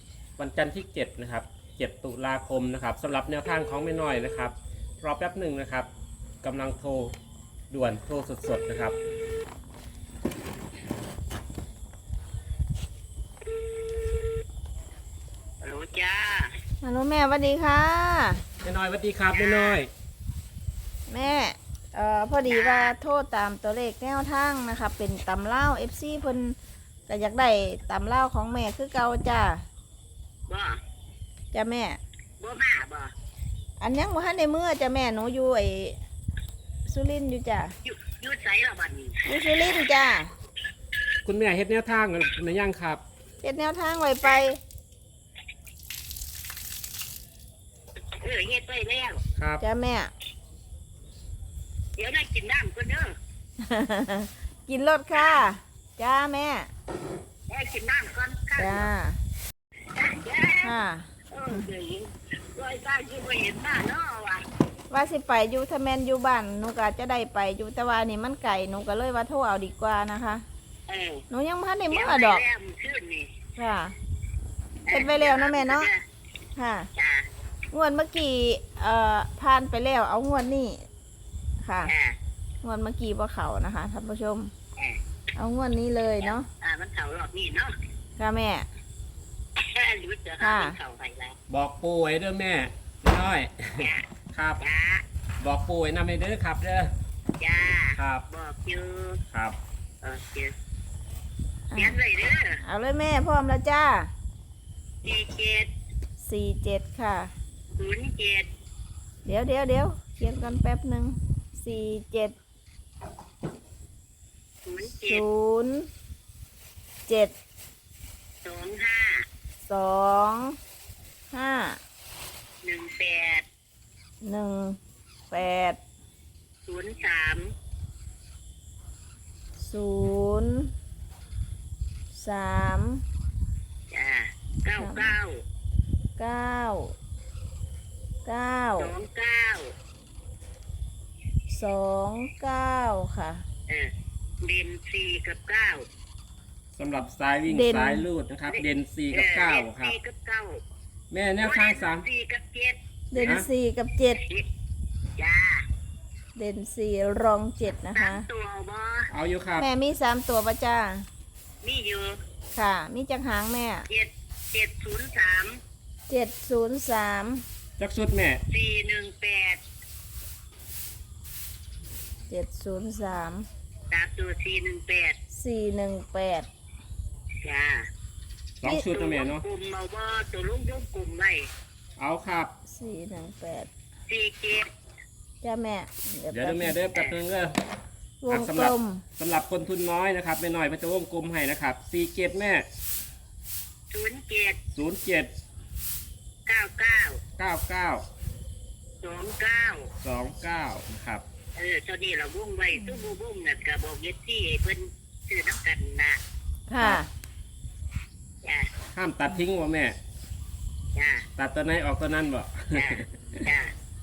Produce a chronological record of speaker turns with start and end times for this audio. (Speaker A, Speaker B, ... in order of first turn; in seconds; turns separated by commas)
Speaker A: 0.4-5.9, Speaker A: 6.4-7.1, Speaker A: 7.7-8.9, Speaker B: 15.6-16.5, Speaker C: 16.8-18.4, Speaker A: 18.6-19.9, Speaker B: 19.3-19.8, Speaker C: 21.1-26.6, Speaker B: 22.5-22.9, Speaker C: 27.1-29.6, Speaker B: 30.5-30.8, Speaker C: 31.5-32.0, Speaker B: 32.4-33.1, Speaker C: 33.8-36.0, Speaker C: 36.9-37.8, Speaker B: 37.8-39.2, Speaker C: 39.2-40.3, Speaker A: 41.2-43.0, Speaker C: 43.4-44.6, Speaker B: 48.2-49.2, Speaker A: 49.4-49.6, Speaker C: 49.6-50.1, Speaker B: 52.0-53.1, Speaker C: 53.6-56.7, Speaker B: 57.5-58.9, Speaker C: 58.6-59.2, Speaker B: 59.9-60.8, Speaker C: 60.6-61.6, Speaker B: 61.3-64.4, Speaker C: 64.9-70.4, Speaker B: 70.9-71.2, Speaker C: 71.3-72.4, Speaker B: 71.9-73.3, Speaker C: 73.6-73.9, Speaker B: 74.9-76.0, Speaker C: 74.9-75.9, Speaker C: 76.5-76.9, Speaker B: 77.0-77.2, Speaker C: 77.7-80.9, Speaker C: 81.6-81.9, Speaker B: 81.8-82.2, Speaker C: 82.6-84.5, Speaker C: 85.3-86.5, Speaker B: 86.2-87.7, Speaker C: 88.2-88.7, Speaker B: 89.6-91.3, Speaker C: 90.4-90.8, Speaker A: 91.5-94.6, Speaker B: 93.8-94.0, Speaker B: 94.6-95.0, Speaker A: 95.4-96.9, Speaker B: 97.4-99.2, Speaker A: 98.0-98.2, Speaker A: 99.3-99.6, Speaker B: 100.0-100.5, Speaker C: 101.7-102.0, Speaker B: 101.7-102.6, Speaker C: 102.6-104.1, Speaker B: 105.0-105.7, Speaker C: 106.2-107.3, Speaker B: 107.8-108.5, Speaker C: 109.2-112.3, Speaker B: 114.6-115.2, Speaker C: 114.9-115.9, Speaker C: 117.1-117.3, Speaker B: 118.4-119.2, Speaker C: 119.6-120.5, Speaker C: 121.3-121.8, Speaker B: 122.6-123.4, Speaker C: 124.2-124.8, Speaker C: 125.3-125.8, Speaker B: 126.7-127.5, Speaker C: 129.6-130.7, Speaker C: 132.1-133.0, Speaker B: 133.9-135.4, Speaker C: 134.8-135.1, Speaker C: 136.2-136.9, Speaker C: 138.2-138.9, Speaker B: 138.8-139.7, Speaker C: 141.5-143.4, Speaker B: 144.4-145.9, Speaker A: 146.7-149.9, Speaker C: 147.5-148.1, Speaker B: 148.5-150.6, Speaker A: 151.1-152.1, Speaker B: 151.4-153.4, Speaker C: 153.1-154.2, Speaker A: 153.2-153.5, Speaker B: 155.2-155.6, Speaker C: 156.3-158.2, Speaker B: 157.9-159.1, Speaker A: 159.1-159.7, Speaker C: 159.6-161.1, Speaker B: 161.6-162.2, Speaker C: 162.5-163.9, Speaker B: 163.9-165.6, Speaker C: 166.1-167.4, Speaker A: 167.8-168.4, Speaker B: 168.5-169.6, Speaker C: 172.3-173.4, Speaker B: 173.9-175.2, Speaker C: 175.3-176.5, Speaker B: 177.4-177.9, Speaker A: 178.6-179.4, Speaker B: 178.9-181.5, Speaker A: 182.0-182.5, Speaker C: 182.7-183.7, Speaker B: 184.1-184.7, Speaker C: 185.4-186.8, Speaker A: 186.3-187.6, Speaker C: 188.2-189.0, Speaker A: 188.3-192.7, Speaker B: 193.9-194.6, Speaker A: 194.8-195.3, Speaker B: 196.5-197.2, Speaker A: 197.4-198.0, Speaker B: 199.0-199.9, Speaker A: 200.0-201.2, Speaker B: 201.6-206.2, Speaker C: 202.8-203.1, Speaker C: 206.7-207.1, Speaker B: 208.4-208.7, Speaker A: 208.9-210.0, Speaker B: 210.9-211.2, Speaker A: 211.4-213.4, Speaker B: 212.7-213.7